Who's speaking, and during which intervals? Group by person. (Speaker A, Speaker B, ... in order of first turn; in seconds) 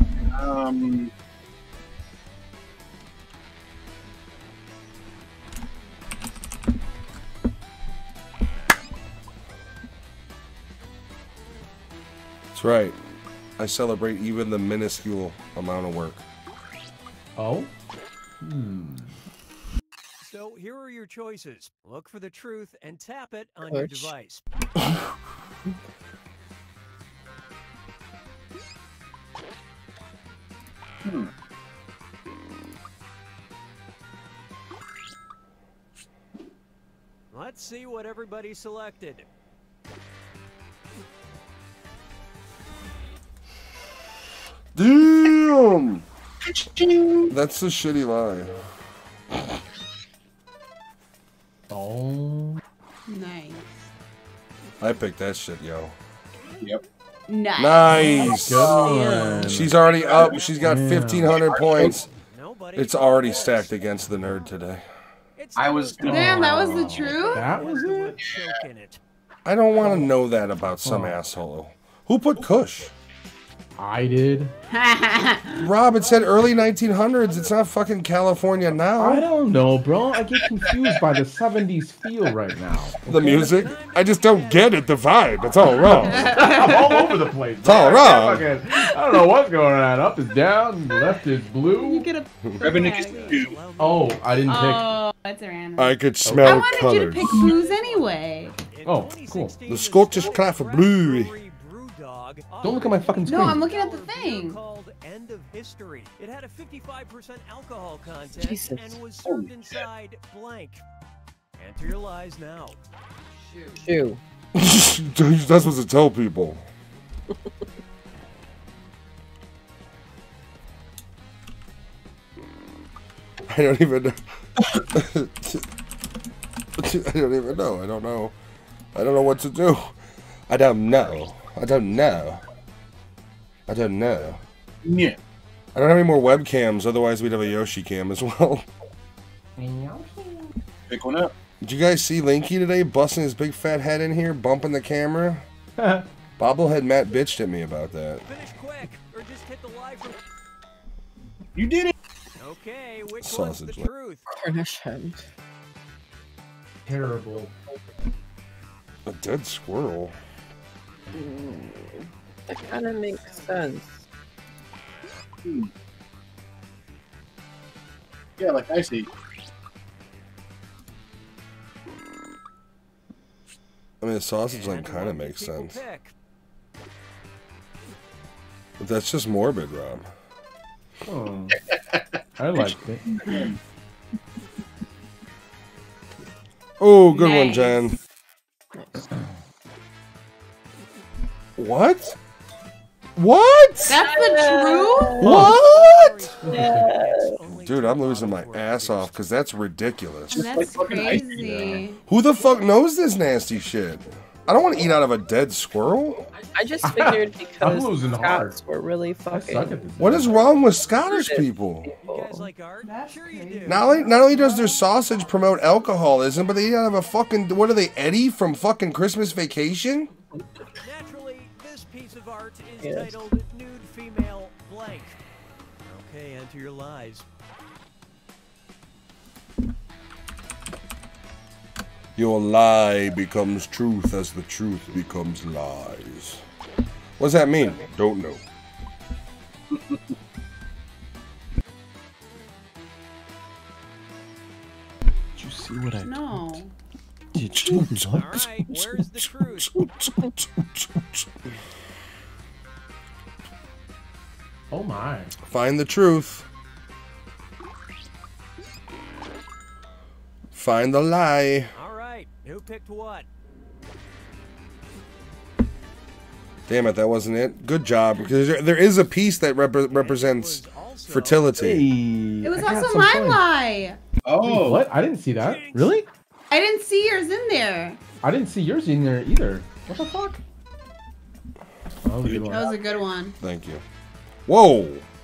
Speaker A: 0.3-1.1, 31.0-31.3, 46.4-47.4, 58.7-59.0, 59.7-60.5, 61.2-62.0, 65.5-66.5, 92.6-93.6, 97.2-97.5, 109.2-109.8, 134.8-135.2, 140.9-141.3, 151.6-151.9, 165.4-165.7, 168.4-169.1, 181.7-183.6, 200.3-201.8, 274.2-274.9, 282.2-283.1
Speaker B: 12.5-13.0, 13.6-16.2, 44.7-46.0, 47.3-48.5, 54.8-55.9, 57.6-58.8, 59.3-62.1, 62.7-64.8, 69.4-72.9, 75.5-79.2, 83.0-86.4, 87.6-88.5, 95.8-97.5, 99.7-101.3, 114.5-116.6, 123.5-125.7, 126.8-128.3, 128.9-129.9, 130.5-132.4, 133.7-134.4, 135.7-138.7, 141.6-145.4, 146.4-148.2, 153.2-153.9, 159.0-160.1, 174.0-175.8, 178.8-180.1, 186.8-187.9, 191.6-192.2, 193.2-194.1, 195.2-196.3, 197.5-200.4, 202.1-206.3, 210.0-211.9, 213.7-220.1, 232.2-236.4, 237.2-238.4, 247.4-251.3, 255.5-256.4, 260.5-261.7, 266.7-271.9, 283.4-283.8, 284.4-285.0
Speaker C: 17.4-17.7, 18.4-19.2, 51.7-52.6, 57.9-59.8, 60.6-61.4, 66.0-68.2, 69.8-70.1, 70.8-71.2, 73.8-74.5, 79.0-83.5, 86.2-92.1, 93.8-94.9, 96.2-96.6, 98.8-99.5, 102.6-103.6, 139.6-140.5, 145.8-146.1, 156.9-157.5, 181.1-181.6, 182.4-183.0, 195.2-195.5, 196.4-196.9, 201.4-201.8, 206.8-208.6, 209.3-210.5, 245.3-246.6, 247.3-248.3, 254.7-255.3, 271.6-273.4, 274.4-276.1, 278.2-280.4, 282.0-282.7
Speaker D: 20.2-24.4, 37.3-39.2, 60.0-60.8, 61.6-64.4, 65.4-69.0, 83.1-86.5, 92.7-94.7, 96.9-110.8, 111.6-112.8, 148.2-150.2, 152.4-154.2, 174.5-176.1, 195.1-199.1, 212.0-214.8, 220.8-225.2, 225.8-227.2, 248.0-249.8, 261.7-263.3, 269.9-271.8, 275.4-276.0
Speaker E: 23.6-24.1, 108.3-109.0, 113.7-114.2, 154.3-155.2, 161.1-164.0, 194.1-195.5, 196.5-197.3, 206.5-209.8, 210.9-212.5, 222.8-223.2
Speaker F: 53.1-53.9, 57.3-59.3, 66.0-67.6, 74.7-75.7, 85.8-87.2, 91.6-93.4, 94.4-98.6, 103.2-104.6, 187.1-187.8, 193.8-195.3, 200.3-202.0, 212.8-214.8, 246.0-246.7, 272.4-274.0, 276.5-278.0, 282.5-283.4